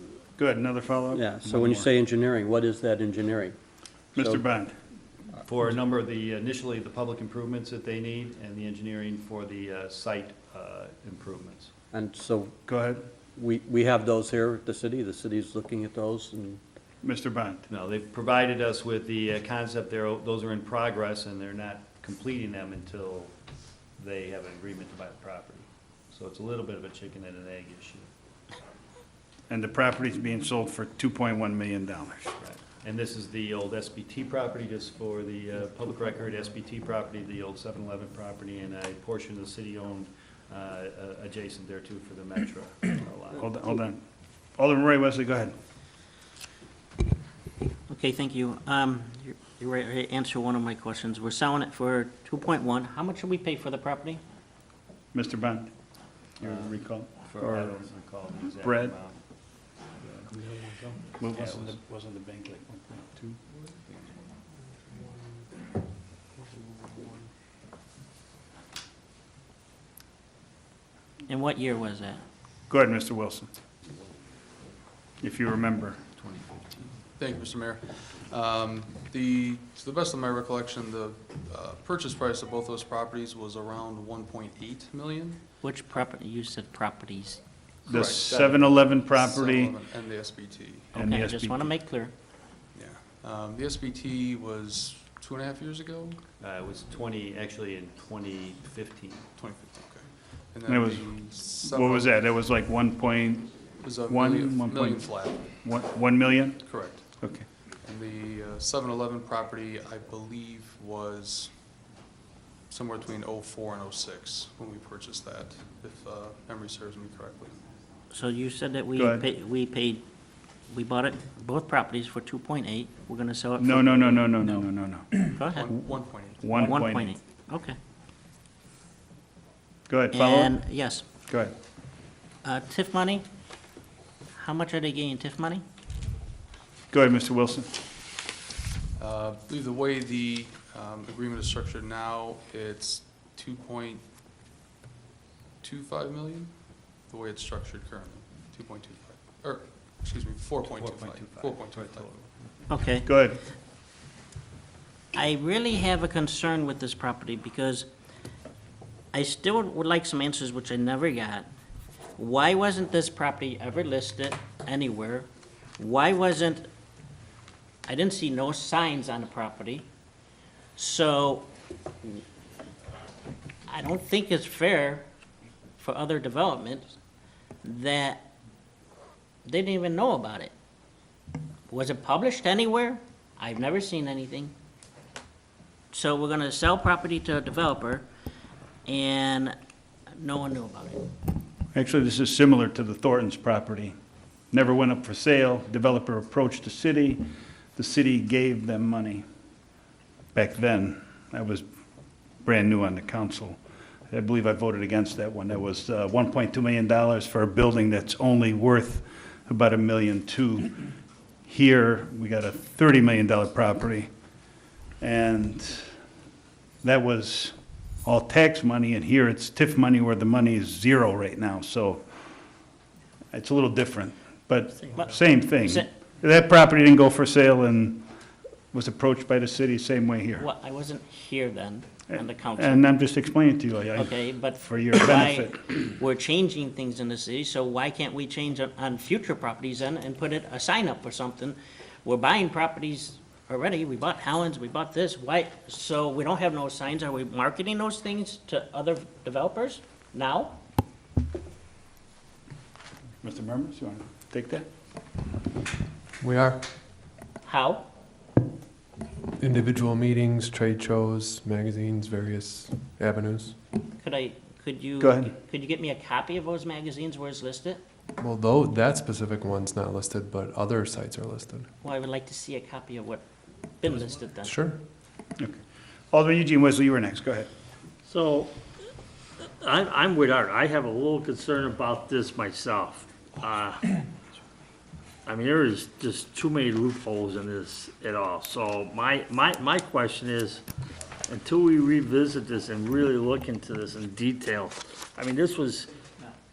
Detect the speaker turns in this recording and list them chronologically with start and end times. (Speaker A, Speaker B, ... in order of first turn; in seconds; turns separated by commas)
Speaker A: 0.3-1.9, Speaker B: 1.1-3.6, Speaker A: 4.1-4.8, Speaker C: 5.4-11.7, Speaker B: 11.9-12.5, Speaker A: 12.7-13.1, Speaker B: 13.3-16.6, Speaker A: 17.0-17.6, Speaker C: 17.7-23.3, Speaker C: 24.0-28.1, Speaker A: 29.5-32.3, Speaker C: 32.4-43.5, Speaker A: 43.4-44.0, Speaker A: 44.5-45.5, Speaker D: 47.9-54.2, Speaker A: 55.1-55.7, Speaker A: 56.4-57.8, Speaker C: 56.4-59.2, Speaker A: 58.6-59.0, Speaker A: 60.1-63.4, Speaker C: 61.3-61.7, Speaker D: 71.3-72.2, Speaker A: 72.7-73.5, Speaker A: 75.2-76.1, Speaker E: 76.3-85.5, Speaker D: 85.6-87.4, Speaker A: 87.9-89.8, Speaker E: 87.9-91.0, Speaker D: 90.9-92.1, Speaker A: 90.9-91.7, Speaker E: 92.7-96.2, Speaker C: 96.4-99.3, Speaker E: 99.4-102.2, Speaker A: 100.7-107.5, Speaker E: 103.8-105.6, Speaker E: 106.7-107.1, Speaker E: 107.7-111.5, Speaker E: 112.7-117.6, Speaker D: 118.1-120.0, Speaker A: 119.0-119.2, Speaker D: 120.7-124.7, Speaker A: 123.6-125.5, Speaker D: 125.3-127.8, Speaker E: 125.5-126.7, Speaker A: 126.4-127.2, Speaker A: 129.9-131.5, Speaker D: 130.1-131.0, Speaker D: 132.4-133.2, Speaker D: 134.3-135.6, Speaker A: 136.9-137.7, Speaker E: 138.9-144.0, Speaker E: 145.6-152.1, Speaker C: 150.6-152.3, Speaker D: 152.7-153.1, Speaker A: 153.0-153.4, Speaker D: 155.1-157.9, Speaker D: 159.1-161.5, Speaker D: 162.2-166.7, Speaker D: 167.8-169.8, Speaker D: 170.8-171.5, Speaker D: 173.7-175.1, Speaker D: 175.8-176.9, Speaker D: 177.6-178.3, Speaker D: 179.4-180.5, Speaker D: 181.7-184.5, Speaker D: 185.9-188.1, Speaker D: 188.8-189.5, Speaker D: 190.2-191.1, Speaker A: 191.7-193.9, Speaker A: 194.5-199.2, Speaker A: 200.3-201.6, Speaker A: 202.4-210.8, Speaker A: 211.4-214.1, Speaker A: 215.0-215.9, Speaker A: 216.8-222.1, Speaker A: 223.3-228.1, Speaker D: 224.9-225.9, Speaker A: 228.7-230.5, Speaker D: 230.4-232.9, Speaker A: 232.5-235.6, Speaker D: 233.9-250.6, Speaker A: 253.2-254.7, Speaker F: 256.2-256.7, Speaker D: 257.4-257.9, Speaker F: 259.4-263.6, Speaker D: 264.0-267.8, Speaker A: 265.0-265.3, Speaker F: 268.2-271.7, Speaker D: 271.8-273.2, Speaker D: 273.8-274.6, Speaker F: 274.4-274.8, Speaker A: 275.4-277.5, Speaker G: 278.1-278.5, Speaker G: 279.6-283.9, Speaker G: 285.2-290.6, Speaker G: 291.3-295.9